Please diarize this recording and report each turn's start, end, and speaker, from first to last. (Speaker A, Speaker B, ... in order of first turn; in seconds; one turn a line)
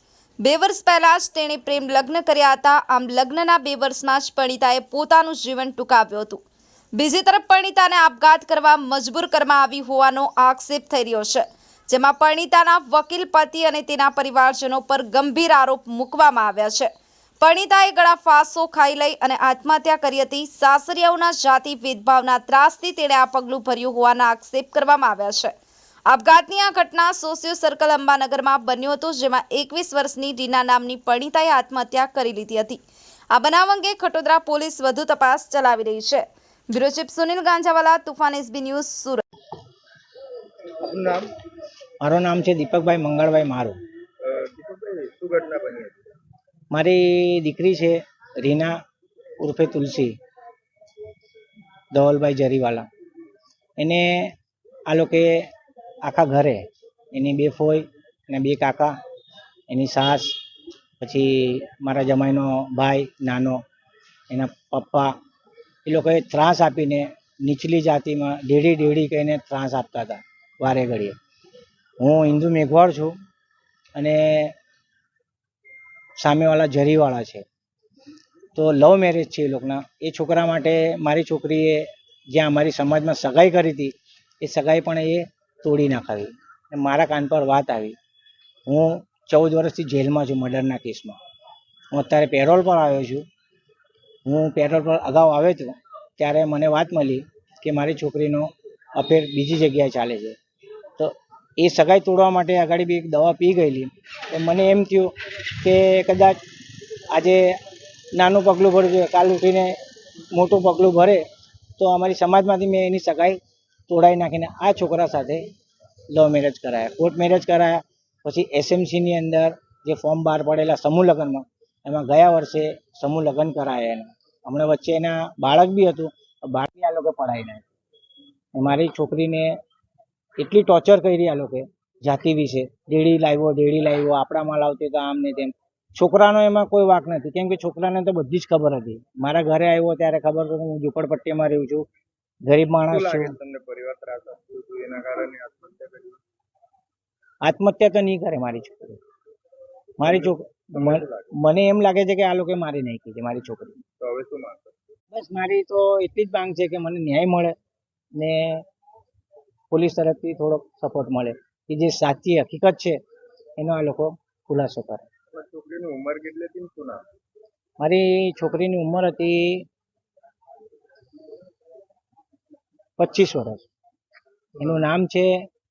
Speaker A: 0.4-6.4
Speaker A: 7.0-16.9
Speaker A: 17.4-25.5
Speaker A: 26.1-32.8
Speaker A: 33.3-39.2
Speaker B: 40.8-41.3
Speaker C: 42.0-43.8
Speaker B: 44.2-46.0
Speaker C: 46.7-48.8
Speaker C: 49.4-50.1
Speaker C: 51.9-52.9
Speaker C: 53.8-54.3
Speaker C: 54.9-55.5
Speaker C: 56.0-59.0
Speaker C: 59.7-60.4
Speaker C: 61.0-63.6
Speaker C: 64.3-65.1
Speaker C: 65.9-71.2
Speaker C: 72.0-73.2
Speaker C: 74.0-74.5
Speaker C: 76.2-77.5
Speaker C: 78.6-88.0
Speaker C: 88.7-91.2
Speaker C: 91.9-93.2
Speaker C: 94.3-100.4
Speaker C: 101.0-106.4
Speaker C: 107.1-107.6
Speaker C: 108.2-109.8
Speaker C: 110.3-111.2
Speaker C: 111.8-113.4
Speaker C: 113.9-115.4
Speaker C: 116.1-127.7
Speaker C: 128.6-129.6
Speaker C: 130.4-141.9
Speaker C: 142.5-143.3
Speaker B: 142.9-146.2
Speaker C: 147.4-149.0
Speaker C: 150.0-153.8
Speaker B: 150.0-151.3
Speaker B: 154.0-154.8
Speaker C: 155.1-157.6
Speaker C: 158.2-158.6
Speaker C: 159.7-163.0
Speaker C: 163.6-165.1
Speaker B: 165.3-167.0
Speaker C: 167.8-169.7
Speaker C: 173.0-173.7
Speaker C: 174.6-175.3